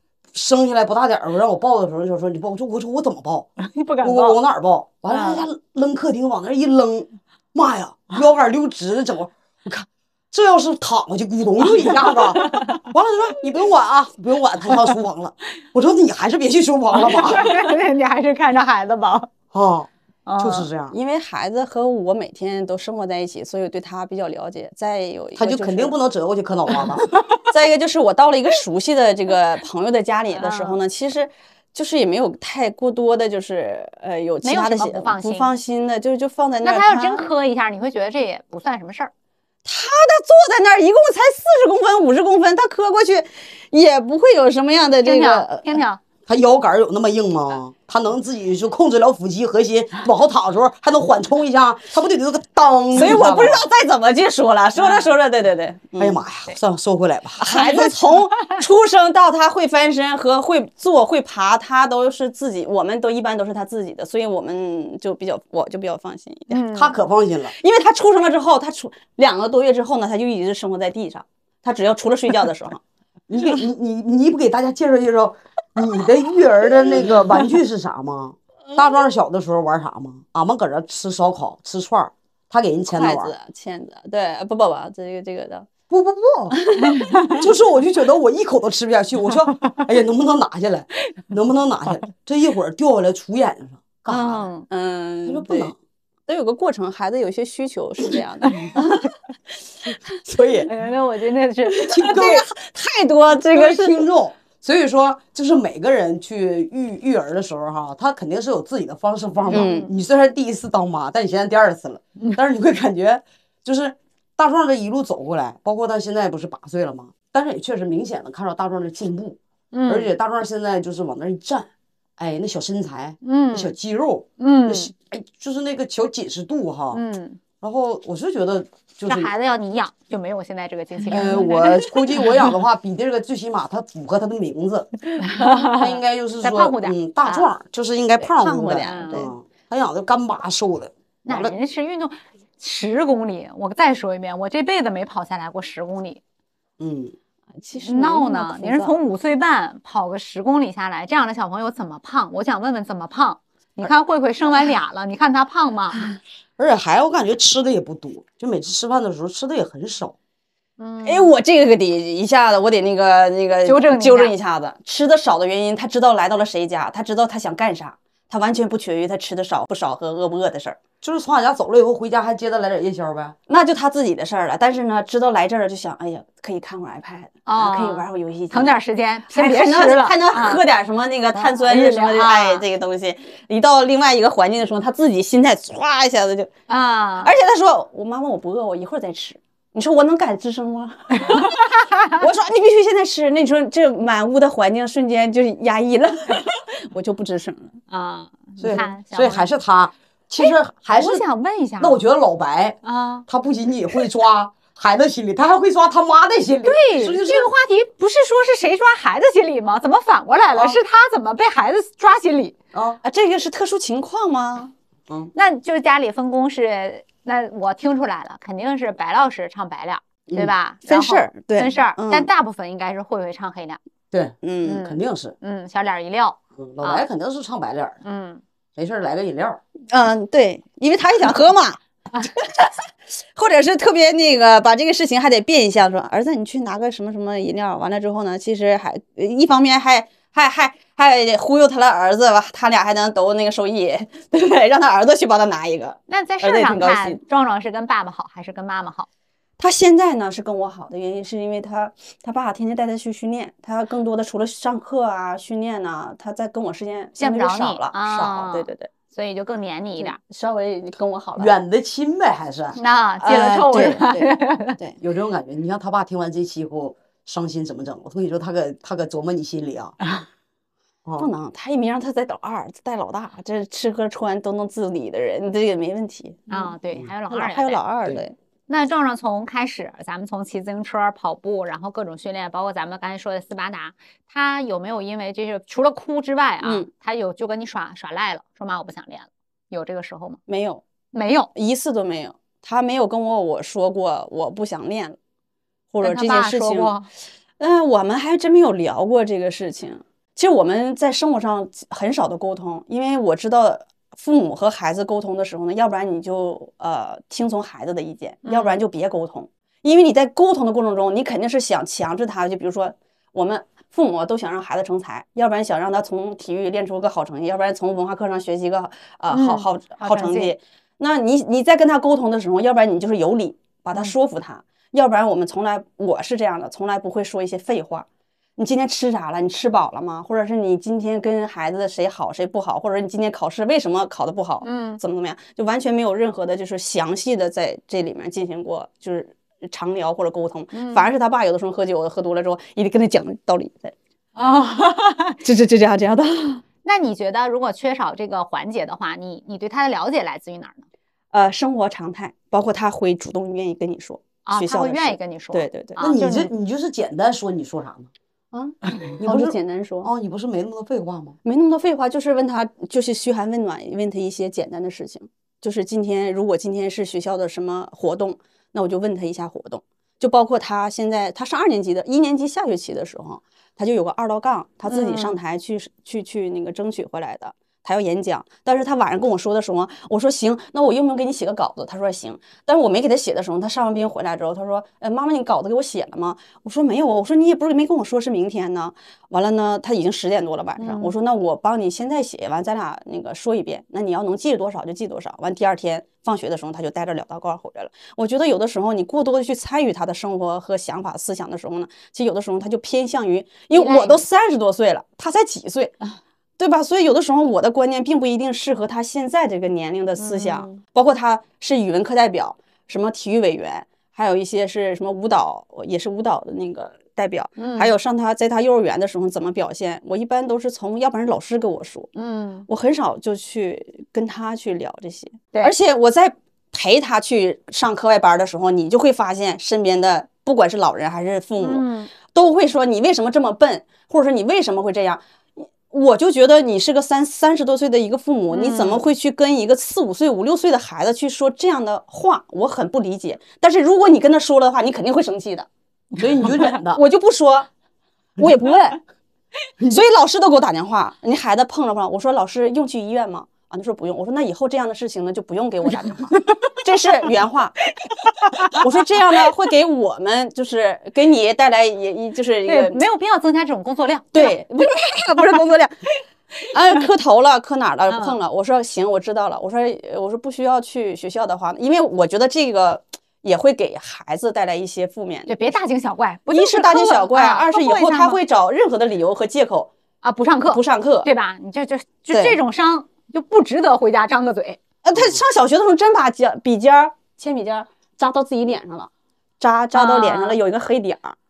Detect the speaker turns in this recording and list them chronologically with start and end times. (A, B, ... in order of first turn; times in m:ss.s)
0:00.3-0:03.5 A
0:03.6-0:04.4 B
0:04.0-0:17.5 A
0:05.1-0:05.4 B
0:12.1-0:12.8 B
0:17.0-0:19.3 B
0:19.5-0:20.9 A
0:20.3-0:20.7 B
0:20.9-0:26.0 C
0:25.4-0:27.0 A
0:27.4-0:37.3 C
0:30.4-0:30.8 B
0:34.4-0:35.5 B
0:36.6-0:39.1 B
0:39.7-0:45.8 C
0:45.0-0:46.0 B
0:46.3-0:53.7 A
0:52.9-0:56.2 C
0:54.8-0:55.1 B
0:56.0-0:57.9 A
0:57.4-1:06.6 C
1:06.5-1:07.0 B
1:06.7-1:07.5 A
1:07.6-1:12.8 C
1:13.3-1:23.3 A
1:22.9-1:25.7 C
1:25.9-1:26.6 A
1:26.6-1:27.3 C
1:26.9-1:27.4 B
1:27.3-1:34.5 A
1:34.1-1:34.7 B
1:34.7-1:35.7 C
1:35.3-1:35.8 A
1:36.3-1:39.0 C
1:40.2-1:40.7 A
1:40.7-1:42.3 B
1:41.9-1:42.5 A
1:42.0-1:44.1 C
1:43.5-2:07.0 A
1:49.5-1:49.9 B
1:49.5-1:49.9 C
1:59.7-2:00.1 B
2:03.2-2:03.7 B
2:04.4-2:04.9 B
2:06.9-2:07.4 B
2:07.6-2:09.3 A
2:09.1-2:12.3 B
2:11.1-2:21.6 A
2:15.2-2:17.5 B
2:18.2-2:19.3 C
2:18.8-2:19.3 B
2:21.3-2:26.2 B
2:26.8-2:27.1 A
2:27.6-2:29.0 C
2:27.8-2:36.0 B
2:36.6-2:40.2 A
2:40.8-2:41.3 B
2:41.0-2:50.8 C
2:43.6-2:44.3 B
2:51.0-2:53.4 A
2:53.5-2:58.7 C
2:57.5-3:00.6 B
2:59.3-3:06.5 C
3:01.4-3:02.6 B
3:06.7-3:07.3 B
3:07.2-3:17.8 C
3:11.3-3:12.2 B
3:17.9-3:19.5 B
3:18.6-3:21.2 A
3:20.4-3:22.0 B
3:21.8-3:27.5 A
3:22.8-3:23.2 B
3:26.6-3:32.6 B
3:30.5-3:30.8 A
3:32.7-3:33.0 A
3:33.0-3:34.7 C
3:35.4-3:43.8 B
3:40.9-3:42.3 C
3:44.1-3:45.3 A
3:44.4-3:44.8 C
3:44.6-3:47.1 B
3:46.6-3:48.0 A
3:48.0-3:48.4 B
3:48.8-3:49.6 A
3:49.9-4:07.2 C
4:06.1-4:09.1 B
4:09.6-4:18.9 C
4:17.2-4:20.2 B
4:20.0-4:21.5 C
4:21.4-4:22.8 A
4:22.8-4:24.8 B
4:23.2-4:25.0 C
4:25.0-4:30.0 A
4:31.2-4:36.7 C
4:36.5-4:37.8 B
4:37.3-4:38.4 C
4:38.7-4:50.4 B
4:46.6-4:46.9 C
4:50.5-4:50.8 C
4:51.1-4:51.5 B
4:51.6-4:55.2 C
4:55.9-4:56.9 C
4:56.0-4:57.1 B
4:57.6-5:28.1 C
5:08.4-5:08.8 B
5:19.3-5:20.6 B
5:28.6-5:44.0 C
5:34.6-5:35.0 B
5:40.7-5:41.0 B
5:44.4-5:45.4 B
5:45.4-5:46.6 C
5:46.8-5:50.9 B
5:51.3-5:56.0 C
5:54.4-5:56.5 B
5:56.0-5:58.1 A
5:58.5-6:00.1 C
5:59.2-6:01.4 A
6:01.4-6:46.0 C
6:14.9-6:15.4 B
6:30.8-6:31.1 B
6:43.7-6:44.2 B
6:46.6-7:02.1 C
6:50.2-6:50.8 B
6:57.6-6:57.9 B
7:02.2-7:02.7 B
7:02.7-7:25.7 C
7:11.6-7:12.1 B
7:18.5-7:19.0 B
7:26.2-7:27.0 A
7:26.4-7:27.7 C
7:28.4-7:29.0 C
7:29.8-7:37.8 C
7:36.5-7:36.8 B
7:38.0-7:38.8 B
7:38.7-7:43.0 C
7:42.7-7:44.6 B
7:44.3-7:46.0 C
7:46.7-7:55.6 C
7:48.1-7:48.4 B
7:55.5-7:58.4 B
7:56.5-7:59.9 C
8:00.2-8:04.8 B
8:00.7-8:01.3 C
8:02.3-8:02.6 C
8:05.0-8:09.1 C
8:05.2-8:05.4 A
8:09.6-8:11.4 C
8:09.9-8:10.6 B